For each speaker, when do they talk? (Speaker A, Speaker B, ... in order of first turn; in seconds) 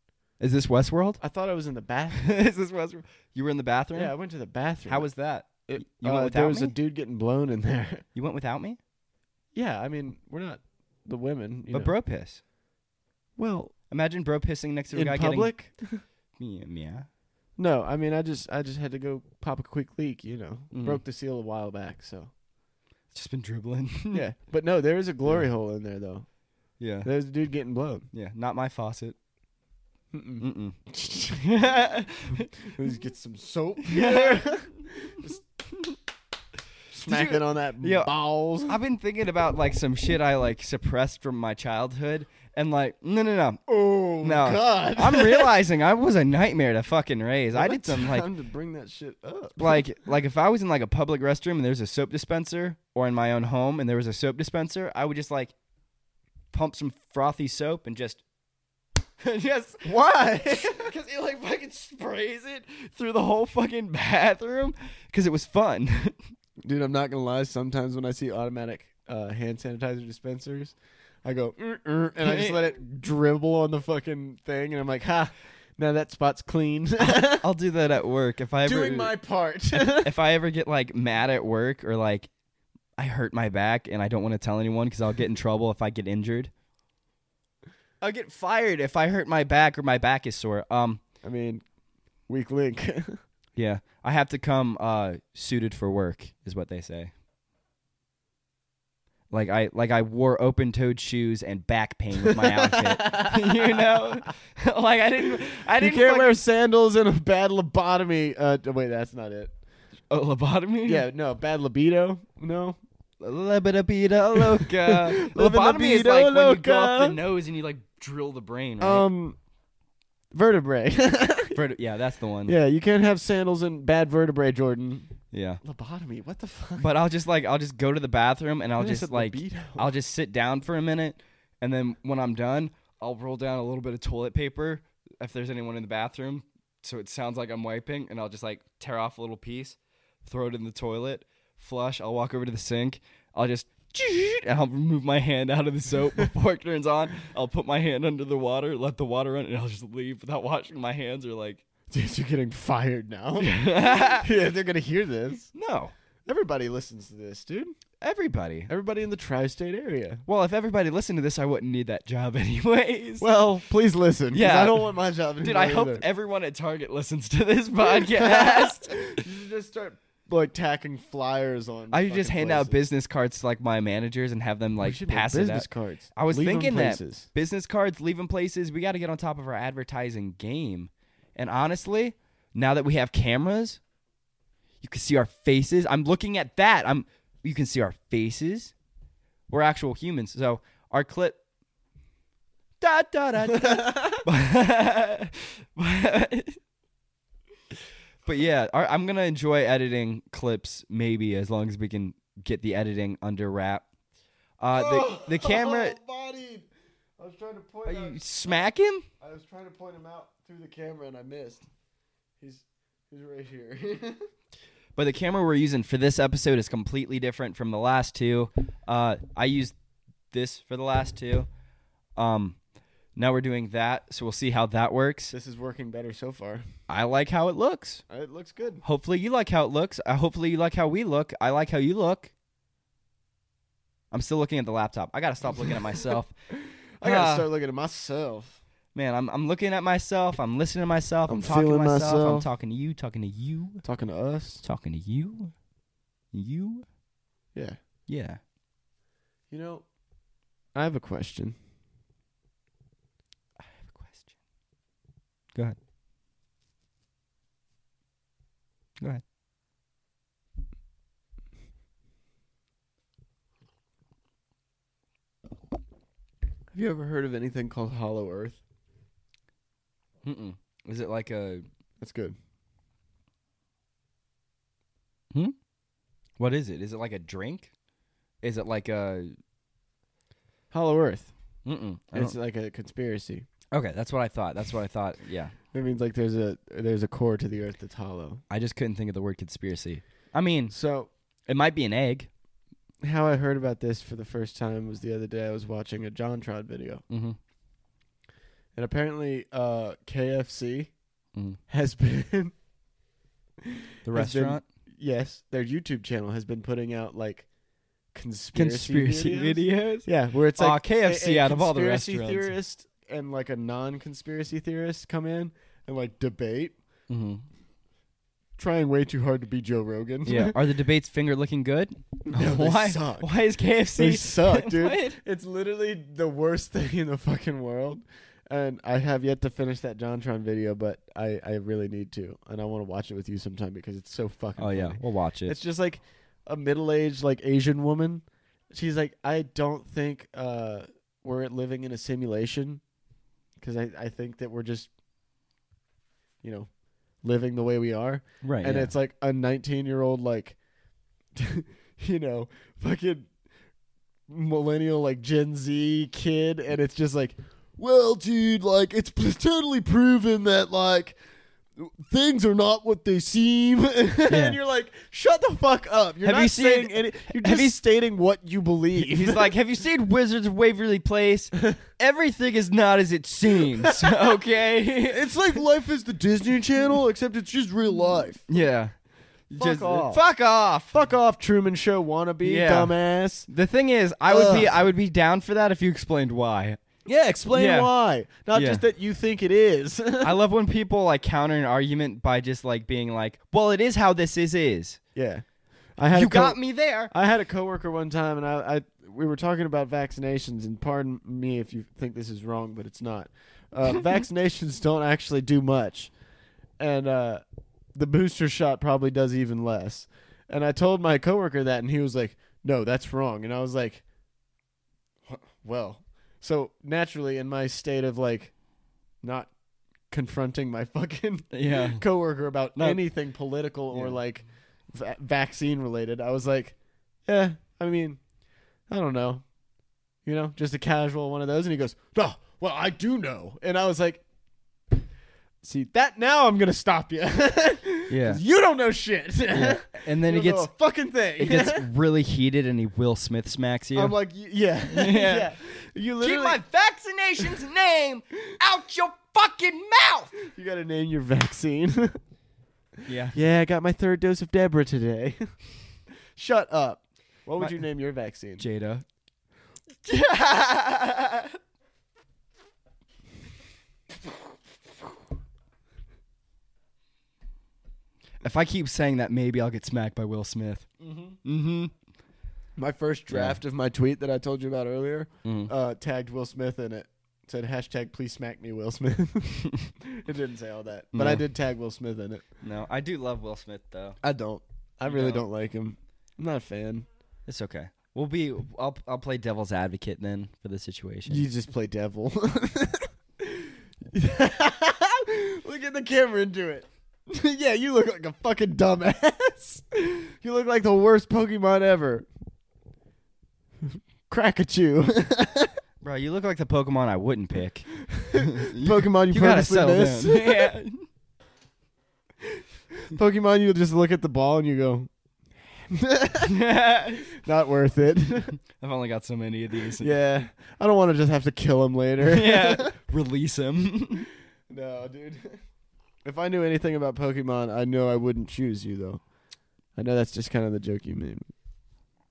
Speaker A: 0.4-1.2, 2.1-4.1, 4.9-6.7, 8.1-8.8, 11.7-12.4, 13.9-15.5, 16.4-17.1, 20.7-21.0, 23.1-24.2, 26.8-27.1, 28.1-29.2, 30.4-32.7, 33.8-35.2, 37.0-38.1, 38.7-43.6, 44.2-48.3, 49.6-55.5, 56.5-58.2, 59.2-66.1, 72.2-72.6, 77.0-79.1, 79.7-82.3, 83.0-86.5, 88.0-91.0, 93.5-97.1, 99.3-106.3, 110.1-111.0, 113.2-119.1, 121.5-122.5, 125.3-125.6, 126.8-151.6, 153.4-154.3, 155.5-155.9, 158.0-158.7, 160.3-163.3, 164.3-164.9, 165.4-169.2, 171.9-183.8, 184.8-188.7, 189.5-191.4, 192.8-196.6, 198.2-203.8, 204.6-206.0, 207.8-209.1, 214.9-219.7, 220.3-221.5, 222.2-222.6, 223.2-225.3, 226.9-228.0, 228.8-232.3, 234.1-236.3, 237.0-237.5, 238.9-243.8, 244.6-245.5, 246.3-246.9, 248.1-248.4, 253.6-254.3, 270.2-271.7, 276.4-277.7, 278.4-279.4, 281.6-282.4, 283.7-285.5, 288.5-290.7, 291.5-292.3, 297.1-297.4, 304.1-304.6, 308.5-312.5, 317.1-317.4, 320.3-325.2, 334.6-335.6, 348.4-348.9, 364.3-364.6, 366.2-367.7, 369.0-375.3, 378.5-378.9, 379.5-380.9, 382.4-382.9, 383.5-386.8, 387.5-387.9, 388.5-388.8, 390.2-395.0, 396.1-397.1, 421.5-422.0, 423.9-424.2, 438.1-438.4, 439.5-440.7, 441.4-444.1, 444.9-445.6, 446.2-450.3, 453.1-453.4, 458.6-459.1, 460.1-461.5, 468.4-470.9, 471.4-471.9, 473.3-473.6, 475.4-475.7, 481.1-481.4, 482.6-484.2, 485.1-485.4, 487.5-491.4, 506.0-511.1, 516.4-517.3, 518.7-520.1, 522.2-524.3
Speaker B: 1.2-2.3, 3.9-5.1, 5.7-8.0, 9.5-11.9, 13.4-13.7, 14.9-16.0, 17.6-22.3, 24.1-26.3, 27.0-28.1, 30.1-31.4, 32.6-35.4, 36.9-38.8, 43.7-45.5, 47.5-49.8, 59.8-60.9, 66.6-77.5, 78.6-80.1, 91.2-91.6, 92.3-93.2, 102.2-104.0, 105.8-109.5, 110.8-112.8, 114.3-117.2, 118.8-119.4, 120.3-121.6, 122.5-126.9, 128.8-129.9, 151.9-155.5, 156.3-157.8, 158.7-160.2, 163.2-166.1, 167.8-172.8, 174.8-177.3, 193.5-194.2, 204.7-206.7, 207.2-208.7, 209.2-211.7, 212.4-214.3, 225.3-226.6, 228.1-228.8, 237.0-238.6, 241.3-242.5, 243.8-244.6, 249.5-249.9, 250.7-251.6, 266.7-268.6, 272.0-272.4, 280.7-281.3, 282.1-283.4, 285.7-288.4, 290.7-291.1, 293.0-297.0, 298.7-300.9, 301.7-302.6, 303.6-307.5, 308.1-316.8, 318.6-320.6, 322.2-323.3, 323.9-342.8, 343.6-344.9, 346.4-346.7, 347.2-350.6, 351.3-353.3, 354.3-361.2, 361.8-369.5, 373.8-374.2, 375.1-378.5, 379.5-380.2, 380.9-383.5, 384.3-384.8, 387.1-390.3, 395.1-395.4, 396.0-406.1, 406.8-407.4, 407.9-414.0, 415.3-418.5, 419.2-419.5, 420.1-426.7, 427.3-428.2, 428.9-429.4, 430.2-434.2, 435.6-441.9, 443.9-446.6, 450.4-452.2, 453.3-455.5, 456.3-458.6, 471.0-471.4, 472.8-482.4, 484.2-487.1, 491.3-502.3, 503.8-505.8, 508.1-510.7, 512.4-515.1, 515.7-516.6, 517.3-518.5, 520.0-523.0, 524.7-525.6, 526.2-529.2, 530.0-531.5